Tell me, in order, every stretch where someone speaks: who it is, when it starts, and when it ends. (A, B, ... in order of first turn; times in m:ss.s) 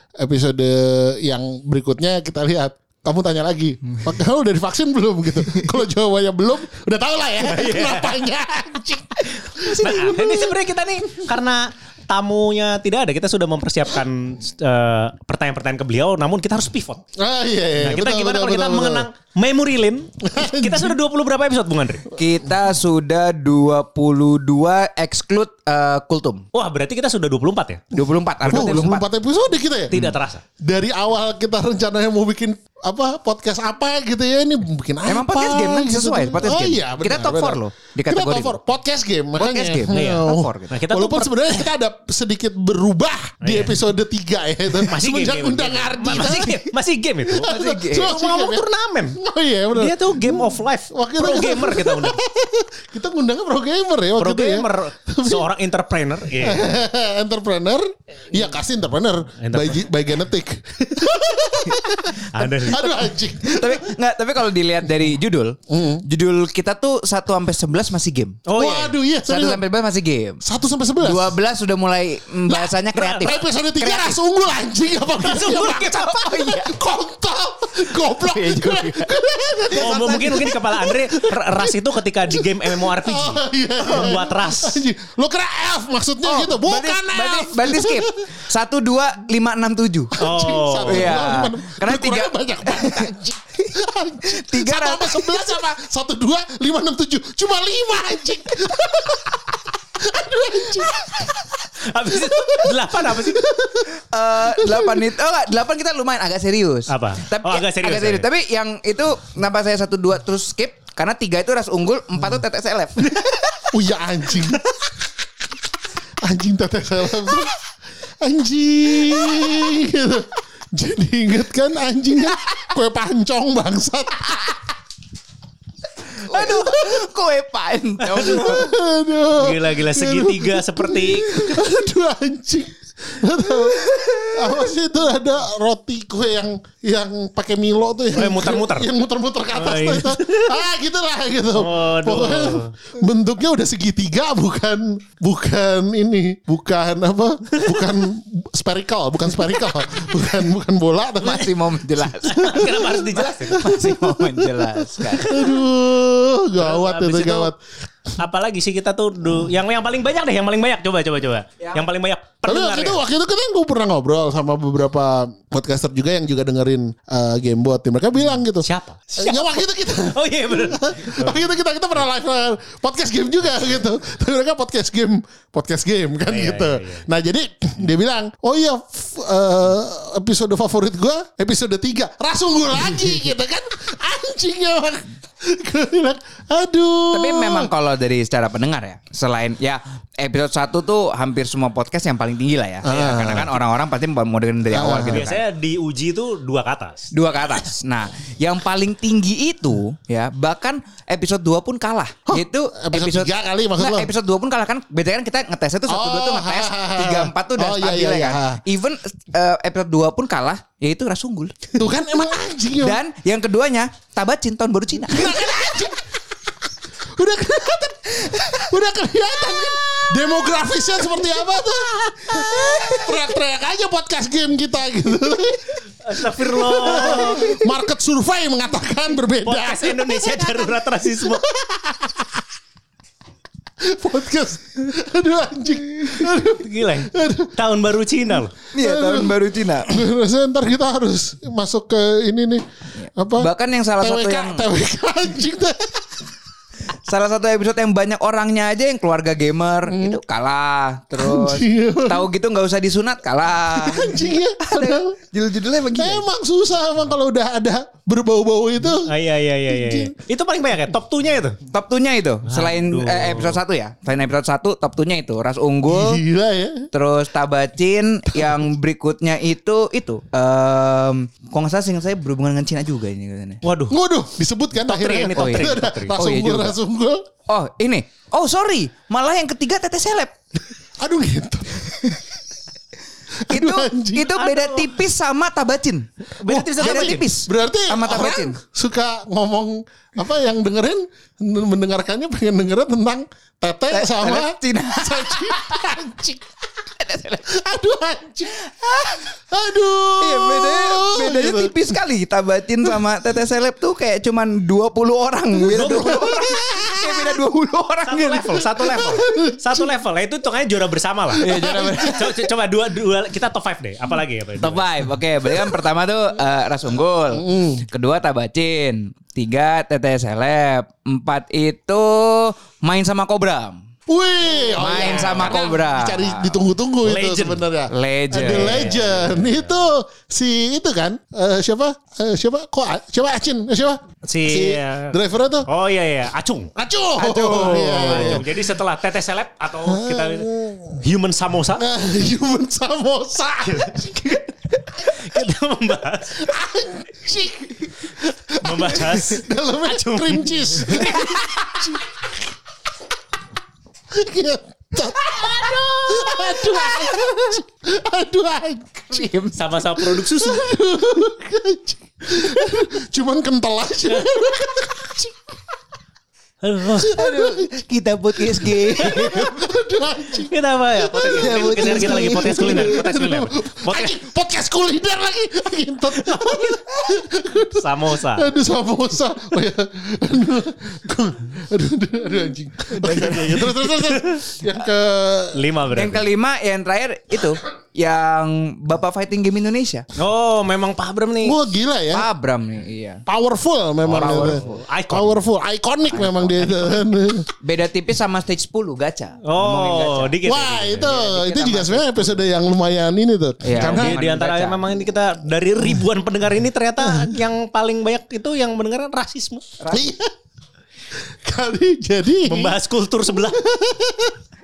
0:00.2-0:10.0 A
0:07.4-0:08.2 B
0:09.6-0:10.6 C
0:09.7-0:17.0 B
0:17.2-0:19.1 A
0:17.8-0:22.0 B
0:20.2-0:21.0 A
0:22.1-0:26.4 C
0:26.5-0:27.8 B
0:27.9-0:29.0 C
0:28.4-0:30.0 A
0:29.9-0:30.4 B
0:30.6-0:46.6 A
0:35.0-0:38.6 C
0:39.4-0:40.7 C
0:39.9-0:41.5 B
0:43.4-0:43.8 B
0:44.8-0:49.2 B
0:46.2-0:46.5 C
0:47.3-0:55.4 A
0:47.4-0:48.2 C
0:49.7-0:52.2 B
0:54.2-0:56.7 B
0:56.4-1:03.9 A
0:59.4-0:59.9 B
1:02.3-1:02.9 B
1:02.7-1:08.4 C
1:05.7-1:06.0 A
1:08.5-1:09.0 B
1:08.6-1:09.6 A
1:09.2-1:10.4 C
1:10.4-1:11.3 A
1:11.0-1:14.2 C
1:12.5-1:21.7 A
1:13.0-1:13.3 B
1:15.3-1:16.8 C
1:15.4-1:16.1 B
1:18.1-1:19.2 C
1:19.7-1:24.8 B
1:22.3-1:28.4 A
1:26.2-1:30.1 C
1:30.1-1:41.5 A
1:30.2-1:31.3 B
1:30.9-1:33.7 C
1:34.3-1:35.6 C
1:41.8-1:43.5 B
1:42.1-1:45.0 A
1:43.9-1:53.7 C
1:46.9-1:48.2 B
1:53.7-1:54.6 A
1:56.2-1:57.6 A
1:58.2-2:04.6 A
2:06.0-2:08.7 C
2:06.3-2:07.0 A
2:08.1-2:37.6 A
2:09.4-2:11.5 B
2:13.6-2:14.7 C
2:18.1-2:18.9 B
2:19.5-2:20.6 B
2:21.5-2:22.7 B
2:27.6-2:27.8 B
2:31.2-2:35.5 C
2:32.2-2:33.6 B
2:35.2-2:35.5 B
2:36.6-2:37.5 B
2:38.2-2:43.0 B
2:42.4-3:07.7 A
2:48.6-2:51.4 B
2:56.3-2:57.0 B
3:07.1-3:15.4 C
3:12.8-3:13.5 A
3:14.7-3:15.2 A
3:15.1-3:17.1 B
3:17.1-3:31.8 C
3:22.3-3:24.1 A
3:25.9-3:28.6 A
3:31.7-3:33.0 A
3:32.8-3:35.9 C
3:35.1-3:36.0 A
3:37.2-3:52.4 A
3:38.3-3:38.6 C
3:39.3-3:40.2 C
3:42.3-3:43.3 C
3:46.0-3:47.6 B
3:49.4-3:51.4 B
3:53.8-3:57.5 A
3:56.4-3:58.6 B
3:58.7-4:00.0 C
3:58.8-4:02.6 A
4:03.0-4:04.6 C
4:03.1-4:06.0 A
4:07.0-4:16.2 C
4:09.9-4:10.2 A
4:11.2-4:12.2 A
4:13.7-4:15.2 A
4:15.9-4:19.1 A
4:19.0-4:21.6 B
4:19.7-4:20.1 A
4:21.7-4:26.2 C
4:22.5-4:23.6 B
4:25.8-4:26.9 A
4:26.9-4:33.6 C
4:33.6-4:33.9 B
4:33.9-4:37.2 A
4:34.8-4:36.1 B
4:35.3-4:36.8 C
4:37.5-4:40.6 C
4:41.0-4:42.0 A
4:43.4-4:44.4 A
4:43.5-4:46.0 C
4:44.4-4:44.9 B
4:46.4-4:47.3 B
4:46.4-4:56.4 A
4:46.7-4:48.6 C
4:53.9-4:55.8 C
4:57.0-4:57.4 C
4:57.5-4:58.7 A
4:58.6-4:59.2 C
4:59.4-5:01.8 A
5:00.2-5:08.8 C
5:05.7-5:06.4 B
5:05.8-5:07.1 A
5:08.0-5:14.9 B
5:08.8-5:09.9 A
5:11.3-5:12.2 A
5:11.4-5:12.5 C
5:14.6-5:23.8 C
5:17.3-5:17.8 A
5:24.1-5:35.7 A
5:24.8-5:26.6 C
5:25.0-5:25.5 B
5:27.0-5:27.6 B
5:27.9-5:29.0 C
5:28.4-5:29.7 B
5:34.2-5:35.2 B
5:35.7-5:36.7 B
5:36.7-5:38.6 A
5:37.2-5:38.4 C
5:37.2-5:41.8 B
5:39.8-5:41.0 A
5:41.8-5:45.2 A
5:43.6-5:44.0 B
5:45.0-5:46.5 B
5:46.4-5:52.4 A
5:48.6-5:51.8 B
5:54.1-5:59.4 A
5:55.4-5:57.6 C
5:59.1-5:59.6 C
5:59.5-6:00.7 B
5:59.9-6:05.4 A
6:06.6-6:07.2 B
6:07.0-6:07.7 A
6:07.1-6:09.6 C
6:08.4-6:25.6 A
6:09.0-6:09.4 B
6:10.4-6:14.1 B
6:11.2-6:13.0 C
6:16.1-6:18.5 B
6:22.9-6:24.4 B
6:25.5-6:26.2 B
6:25.9-6:30.0 C
6:30.2-6:31.6 B
6:31.4-6:32.3 A
6:32.1-6:33.2 C
6:33.3-6:37.5 A
6:34.0-6:34.8 C
6:34.1-6:35.4 B
6:36.1-6:40.4 C
6:39.4-6:41.3 B
6:40.4-6:44.2 A
6:41.1-6:42.4 C
6:43.6-6:44.8 C
6:43.8-6:49.7 B
6:47.0-6:47.4 A
6:49.8-6:50.1 C
6:49.9-6:50.3 A
6:51.4-6:52.8 A
6:52.4-6:53.6 B
6:53.3-6:54.4 A